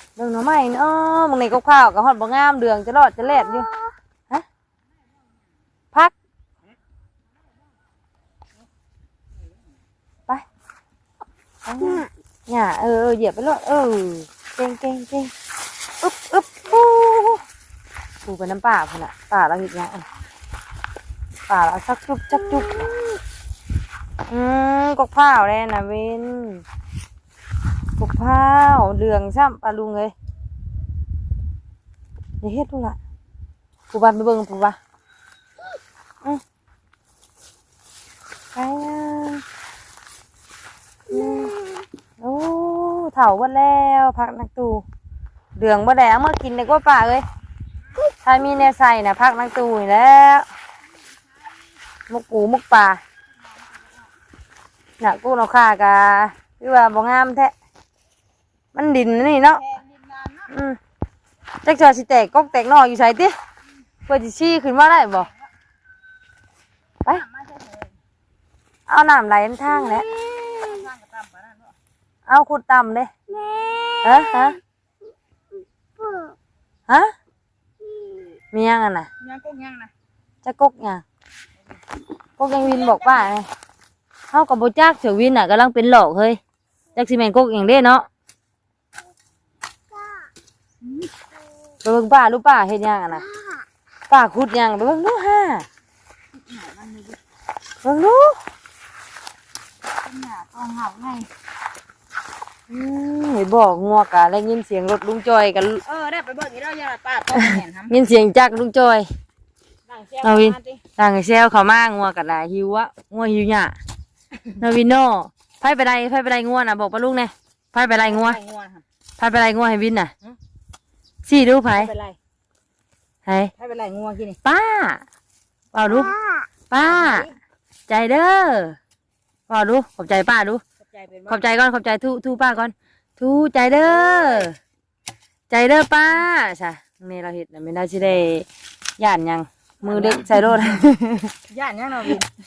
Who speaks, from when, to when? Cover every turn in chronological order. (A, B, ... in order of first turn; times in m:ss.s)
0:00.2-0:03.7 A
0:03.2-0:03.9 B
0:11.6-0:15.3 A
0:11.8-0:12.1 B
0:16.0-0:17.4 A
0:18.2-0:20.0 A
0:21.5-0:22.9 A
0:22.3-0:23.2 B
0:24.3-0:26.6 A
0:28.0-0:30.1 A
0:32.4-0:33.0 A
0:33.9-0:34.8 A
0:38.6-0:39.4 A
0:41.1-0:41.9 B
0:41.1-0:41.5 A
0:42.2-0:44.8 A
0:45.6-0:47.2 A
0:48.2-0:50.5 A
0:52.1-0:53.0 A
0:53.3-0:54.1 C
0:55.0-0:57.5 A
0:58.8-0:59.6 A
0:59.5-1:00.5 C
1:00.5-1:00.8 A
1:01.6-1:03.4 A
1:04.1-1:05.3 A
1:05.1-1:05.5 C
1:07.1-1:08.0 C
1:08.9-1:10.1 A
1:09.7-1:10.9 B
1:10.5-1:11.8 C
1:12.3-1:13.1 A
1:13.3-1:14.6 B
1:14.0-1:14.6 A
1:16.0-1:16.4 B
1:17.8-1:18.4 B
1:18.5-1:19.1 A
1:19.2-1:19.9 C
1:20.4-1:21.0 A
1:22.4-1:23.5 A
1:22.7-1:23.1 B
1:24.3-1:26.4 A
1:27.0-1:28.1 A
1:29.9-1:30.3 B
1:30.8-1:31.1 C
1:31.8-1:33.2 A
1:33.2-1:33.6 B
1:34.1-1:35.7 A
1:36.3-1:37.2 C
1:37.8-1:38.4 A
1:39.9-1:41.3 C
1:42.7-1:45.8 A
1:45.8-1:47.9 C
1:47.5-1:49.1 A
1:49.9-1:50.8 C
1:50.2-1:53.8 A
1:54.6-1:58.4 A
1:58.0-1:58.8 C
1:59.2-2:00.1 A
2:01.2-2:01.9 A
2:01.7-2:02.2 C
2:03.3-2:03.5 A
2:03.6-2:04.4 C
2:04.4-2:05.0 A
2:05.7-2:06.1 A
2:05.9-2:06.5 B
2:06.7-2:07.3 A
2:06.8-2:07.4 C
2:07.9-2:08.8 A
2:09.5-2:10.6 A
2:10.8-2:11.5 C
2:11.3-2:14.6 A
2:13.8-2:14.5 C
2:15.5-2:18.5 A
2:19.0-2:21.3 A
2:19.8-2:20.4 C
2:21.5-2:22.3 C